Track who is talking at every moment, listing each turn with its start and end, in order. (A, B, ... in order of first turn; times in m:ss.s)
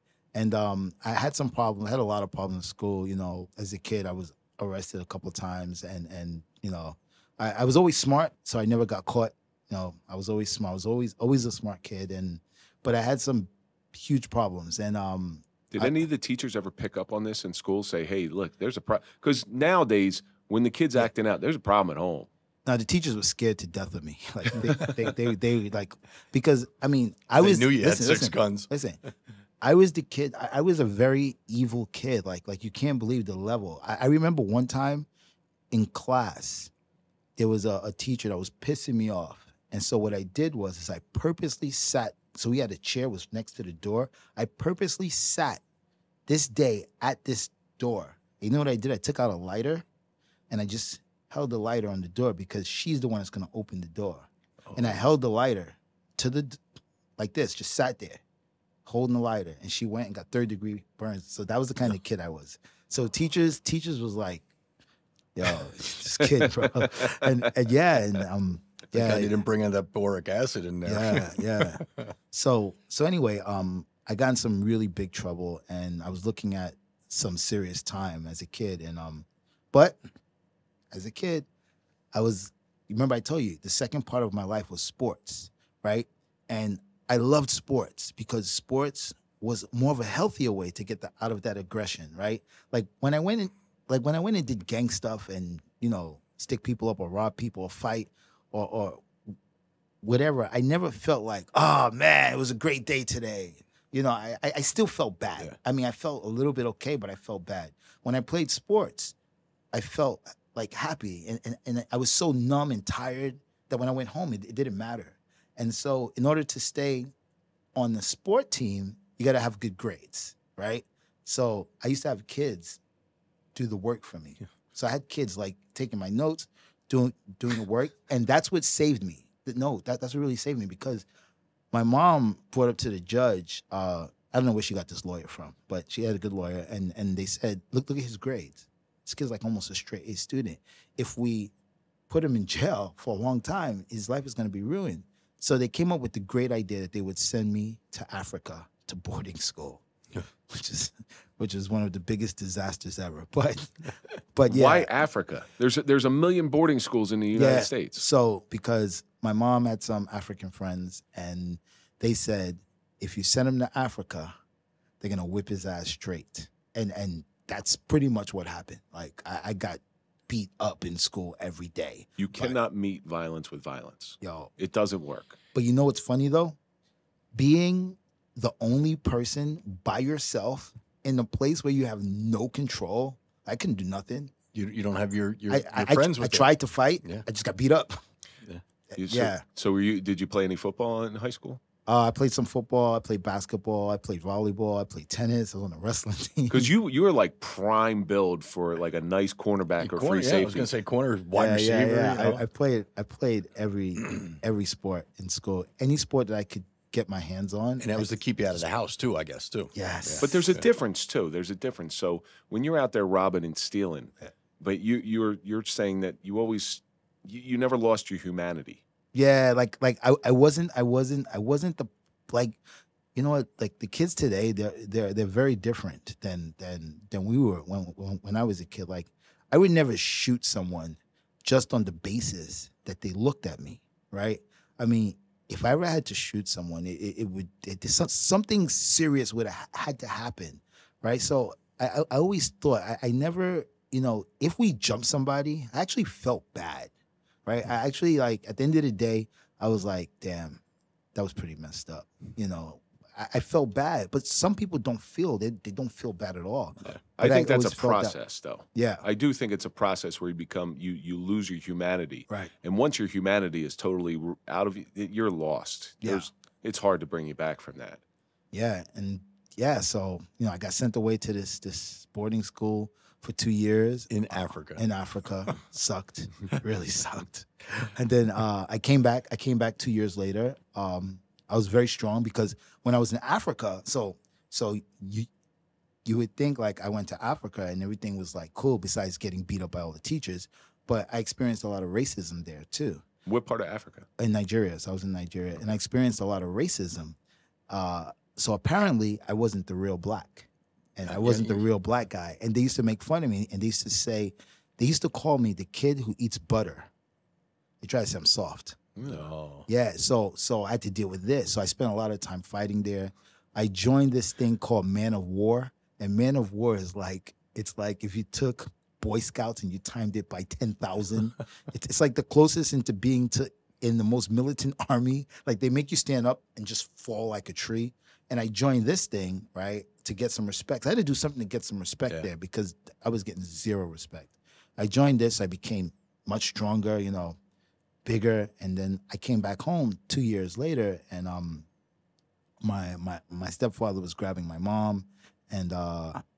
0:00.3-0:16.0 A
0:15.7-0:22.3 B
0:22.7-0:29.0 A
0:27.4-0:28.7 C
0:29.6-0:35.1 A
0:35.7-0:36.7 A
0:37.4-0:45.6 A
0:46.3-0:49.8 A
0:50.5-0:56.6 A
0:54.7-0:55.0 C
0:57.2-0:58.2 A
0:58.8-1:04.5 A
1:05.4-1:09.4 A
1:06.8-1:07.3 B
1:08.9-1:12.1 C
1:10.8-1:20.0 A
1:20.9-1:21.5 A
1:22.1-1:39.1 A
1:40.0-1:49.2 A
1:49.7-1:57.1 A
1:57.8-2:02.8 A
2:03.6-2:11.1 A
2:11.7-2:21.5 A
2:22.1-2:29.8 A
2:30.5-2:33.8 A
2:34.3-2:34.9 A
2:34.5-2:38.0 B
2:37.3-2:44.3 A
2:45.0-2:52.6 A
2:52.2-2:55.4 B
2:54.2-2:54.5 A
2:55.5-2:56.6 A
2:57.3-3:04.3 A
3:04.5-3:06.5 C
3:05.5-3:08.0 A
3:08.9-3:09.4 A
3:09.0-3:11.6 B
3:11.9-3:16.7 A
3:16.5-3:20.7 B
3:19.8-3:22.4 C
3:21.3-3:28.1 A
3:27.8-3:30.3 C
3:29.8-3:30.3 A
3:30.2-3:38.8 B
3:39.1-3:42.6 A
3:43.2-4:06.9 A
4:07.5-4:10.6 A
4:11.2-4:18.2 A
4:17.2-4:28.0 B
4:18.7-4:19.0 A
4:26.0-4:26.3 A
4:28.5-4:34.1 A
4:34.1-4:34.8 C
4:34.7-4:45.3 A
4:46.0-4:53.0 A
4:53.3-4:54.1 B
4:54.2-4:57.2 A
4:57.7-5:06.9 A
5:01.1-5:01.6 C
5:07.8-5:08.8 A
5:09.0-5:09.3 B
5:09.0-5:09.7 C
5:09.7-5:37.4 A
5:38.0-5:41.7 A
5:42.6-5:46.2 A